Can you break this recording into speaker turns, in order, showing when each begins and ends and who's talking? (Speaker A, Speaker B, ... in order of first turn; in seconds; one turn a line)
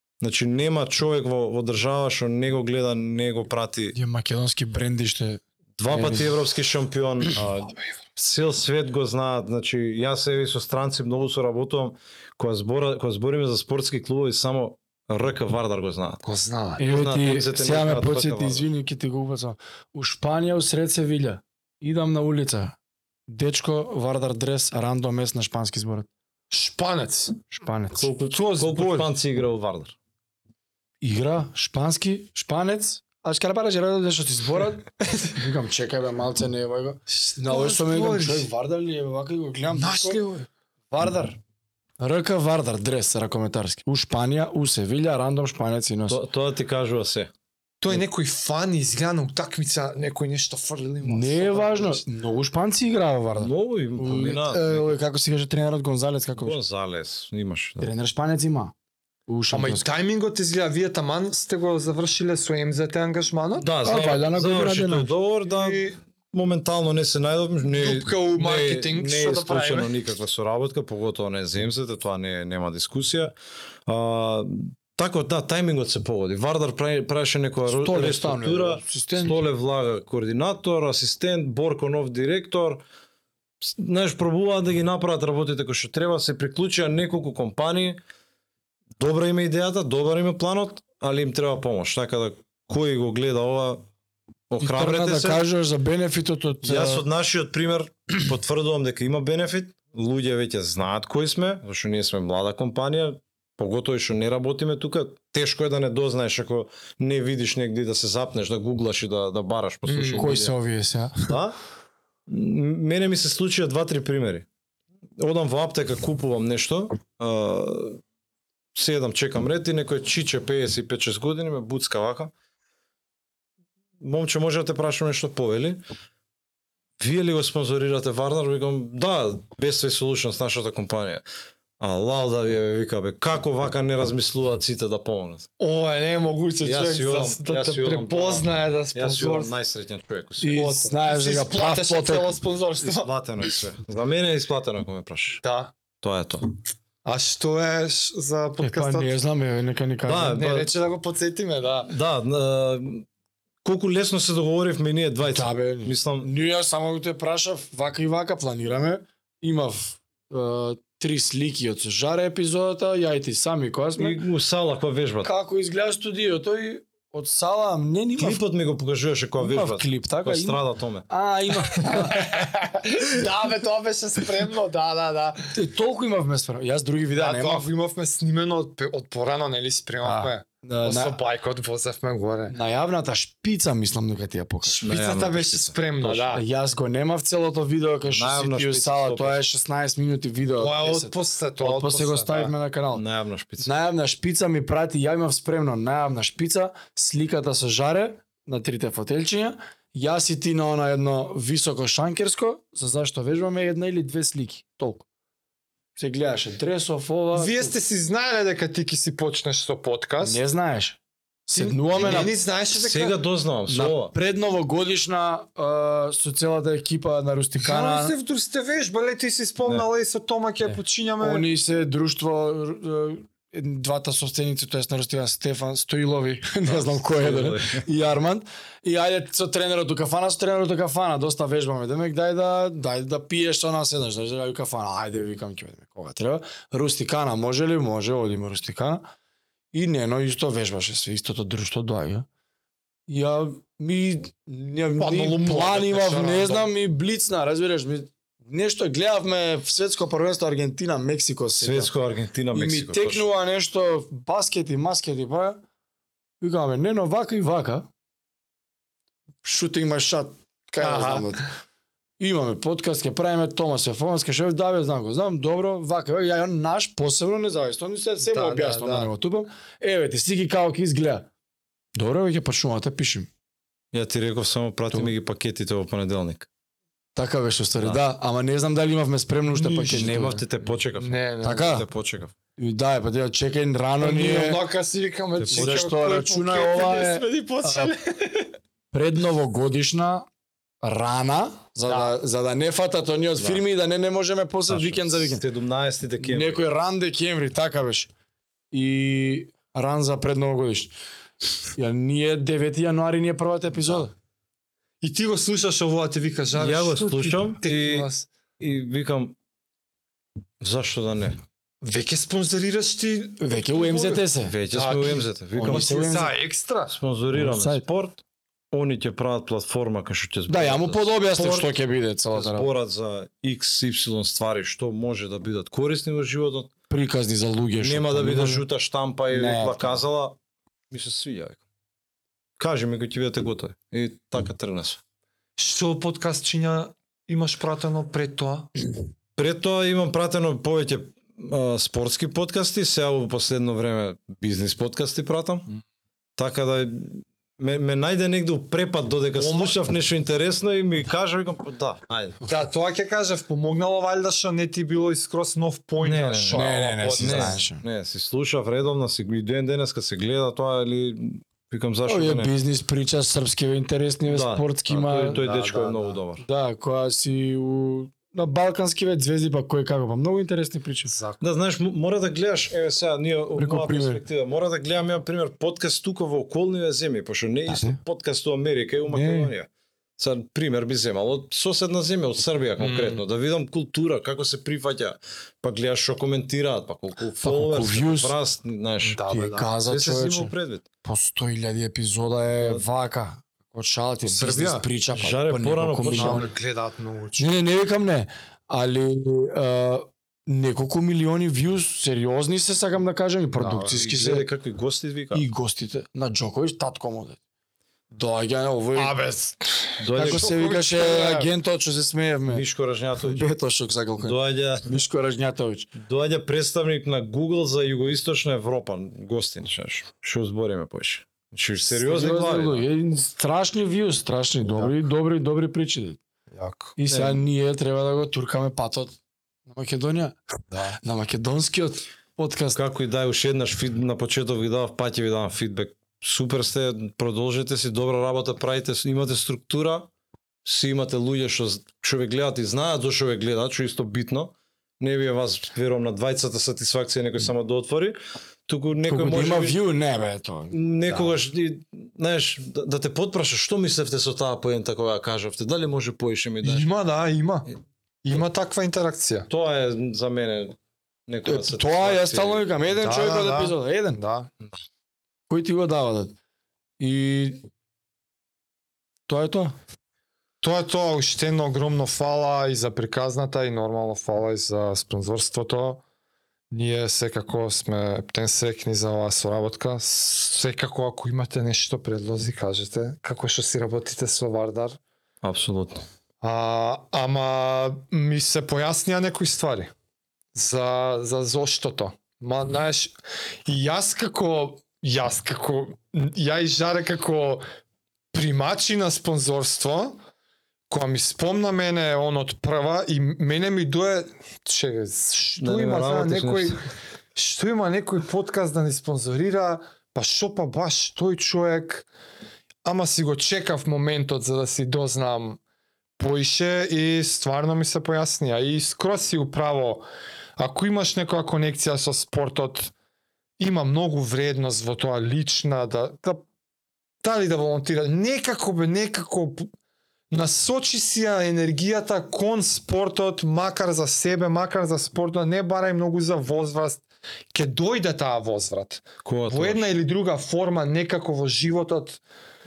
Speaker A: 0.2-4.0
Speaker B: 3.9-6.3
Speaker A: 5.8-16.2
Speaker C: 16.2-16.8
Speaker B: 16.8-22.7
Speaker A: 16.8-18.7
Speaker B: 23.3-26.1
Speaker C: 26.5-27.4
Speaker B: 27.5-28.1
Speaker A: 28.0-29.9
Speaker C: 28.2-29.1
Speaker B: 31.0-40.2
Speaker C: 37.1-38.5
Speaker C: 39.7-40.5
Speaker B: 40.9-41.4
Speaker B: 42.0-46.2
Speaker A: 46.1-47.3
Speaker C: 47.8-52.0
Speaker B: 51.0-56.6
Speaker A: 53.4-54.9
Speaker A: 56.4-57.9
Speaker B: 57.8-58.7
Speaker B: 59.3-59.8
Speaker C: 59.5-63.7
Speaker A: 63.6-65.8
Speaker B: 63.8-65.1
Speaker C: 65.4-66.0
Speaker A: 66.3-73.3
Speaker C: 67.7-69.9
Speaker A: 73.8-82.8
Speaker B: 77.7-79.4
Speaker A: 83.6-88.0
Speaker A: 89.0-93.8
Speaker A: 94.5-95.5
Speaker B: 94.6-97.0
Speaker A: 96.6-110.5
Speaker C: 109.9-110.3
Speaker B: 110.2-111.4
Speaker A: 111.3-111.6
Speaker A: 112.3-114.5
Speaker A: 115.2-118.0
Speaker A: 118.7-122.3
Speaker A: 124.0-125.8
Speaker A: 127.0-131.2
Speaker A: 131.8-135.5
Speaker C: 135.6-139.5
Speaker A: 136.6-140.6
Speaker B: 140.4-142.4
Speaker C: 140.5-143.1
Speaker A: 142.8-145.4
Speaker C: 145.4-145.7
Speaker A: 146.0-146.5
Speaker C: 147.0-149.2
Speaker B: 148.6-150.4
Speaker A: 150.1-150.7
Speaker C: 150.2-151.9
Speaker A: 151.9-153.1
Speaker A: 153.6-156.3
Speaker B: 155.2-164.2
Speaker A: 164.0-165.3
Speaker B: 165.2-168.4
Speaker A: 168.2-171.1
Speaker B: 169.4-172.4
Speaker C: 171.8-175.5
Speaker B: 175.5-177.7
Speaker C: 177.1-182.6
Speaker B: 180.0-181.2
Speaker B: 182.5-184.9
Speaker C: 184.6-186.4
Speaker A: 184.8-186.4
Speaker B: 186.3-193.0
Speaker A: 188.1-189.4
Speaker C: 190.6-192.5
Speaker A: 192.9-193.7
Speaker B: 193.6-205.0
Speaker B: 206.0-207.7
Speaker C: 207.3-210.4
Speaker B: 210.2-212.3
Speaker C: 211.5-213.2
Speaker A: 212.0-214.1
Speaker B: 213.7-218.1
Speaker C: 217.6-221.5
Speaker B: 220.7-239.1
Speaker A: 226.7-227.8
Speaker B: 239.7-242.2
Speaker B: 243.1-251.9
Speaker C: 245.0-246.7
Speaker A: 251.6-253.3
Speaker B: 252.5-255.6
Speaker B: 256.4-257.9
Speaker B: 259.4-261.4
Speaker C: 260.8-261.5
Speaker B: 262.2-271.3
Speaker C: 268.2-269.1
Speaker B: 271.9-273.3
Speaker A: 273.9-276.5
Speaker B: 277.1-280.3
Speaker C: 279.5-281.7
Speaker A: 279.9-282.3
Speaker B: 281.4-281.9
Speaker B: 282.6-284.6
Speaker C: 284.0-288.5
Speaker A: 285.4-285.9
Speaker B: 285.5-287.9
Speaker B: 288.9-290.2
Speaker B: 290.8-295.4
Speaker C: 291.9-292.1
Speaker A: 294.7-296.6
Speaker B: 296.2-298.1
Speaker B: 298.7-300.9
Speaker B: 301.6-304.1
Speaker C: 305.0-308.3
Speaker A: 306.6-308.1
Speaker A: 308.6-309.4
Speaker A: 310.6-311.4
Speaker C: 311.8-316.9
Speaker B: 313.4-314.6
Speaker A: 314.4-316.2
Speaker B: 315.6-316.3
Speaker A: 316.9-318.2
Speaker B: 317.3-317.8
Speaker A: 318.7-321.8
Speaker B: 320.5-322.7
Speaker A: 322.3-326.7
Speaker B: 326.9-328.6
Speaker A: 327.8-330.4
Speaker B: 329.3-330.0
Speaker A: 330.9-331.6
Speaker A: 332.6-335.0
Speaker C: 335.6-338.7
Speaker A: 339.4-345.7
Speaker A: 346.4-352.4
Speaker C: 349.3-349.8
Speaker C: 352.4-357.6
Speaker A: 356.0-362.5
Speaker B: 356.5-357.8
Speaker B: 362.1-365.4
Speaker A: 364.2-366.4
Speaker C: 365.4-366.2
Speaker B: 366.4-371.1
Speaker C: 371.1-371.4
Speaker A: 371.4-389.2
Speaker B: 373.6-374.2
Speaker B: 377.7-378.0
Speaker B: 379.1-379.5
Speaker C: 382.8-383.2
Speaker B: 387.4-388.3
Speaker C: 389.0-389.7
Speaker B: 389.3-396.5
Speaker A: 389.8-390.9
Speaker A: 392.6-392.8
Speaker C: 394.2-394.9
Speaker A: 395.1-396.5
Speaker C: 396.0-397.5
Speaker B: 397.4-404.5
Speaker C: 403.6-404.0
Speaker A: 403.9-405.4
Speaker B: 405.3-407.4
Speaker B: 408.1-409.1
Speaker C: 408.9-411.5
Speaker A: 410.0-410.5
Speaker B: 410.1-412.6
Speaker A: 412.5-413.5
Speaker B: 413.2-415.9
Speaker A: 414.2-415.0
Speaker A: 415.9-422.9
Speaker B: 421.9-426.2
Speaker C: 426.5-427.0
Speaker B: 427.0-429.1
Speaker A: 427.1-427.4
Speaker B: 429.7-430.4
Speaker C: 430.7-431.0
Speaker B: 431.0-432.8
Speaker A: 432.7-440.1
Speaker A: 440.6-449.8
Speaker B: 449.1-450.8
Speaker A: 450.7-456.9
Speaker C: 451.1-451.4
Speaker C: 456.6-457.7
Speaker C: 458.2-459.5
Speaker A: 459.5-460.8
Speaker A: 461.3-462.7
Speaker B: 461.4-464.2
Speaker C: 462.9-464.5
Speaker B: 465.5-466.3
Speaker B: 467.0-467.6
Speaker B: 469.3-469.8
Speaker C: 470.6-476.0
Speaker C: 476.7-485.0
Speaker A: 485.4-486.0
Speaker C: 486.4-489.9
Speaker C: 490.5-493.1
Speaker C: 493.6-497.6
Speaker C: 498.3-500.2
Speaker C: 500.9-506.8
Speaker A: 505.6-506.8
Speaker C: 507.3-512.1
Speaker C: 512.8-515.6
Speaker C: 516.2-520.0
Speaker C: 520.6-522.9
Speaker C: 523.6-526.4
Speaker C: 527.2-529.7
Speaker C: 530.3-542.2
Speaker A: 539.2-539.9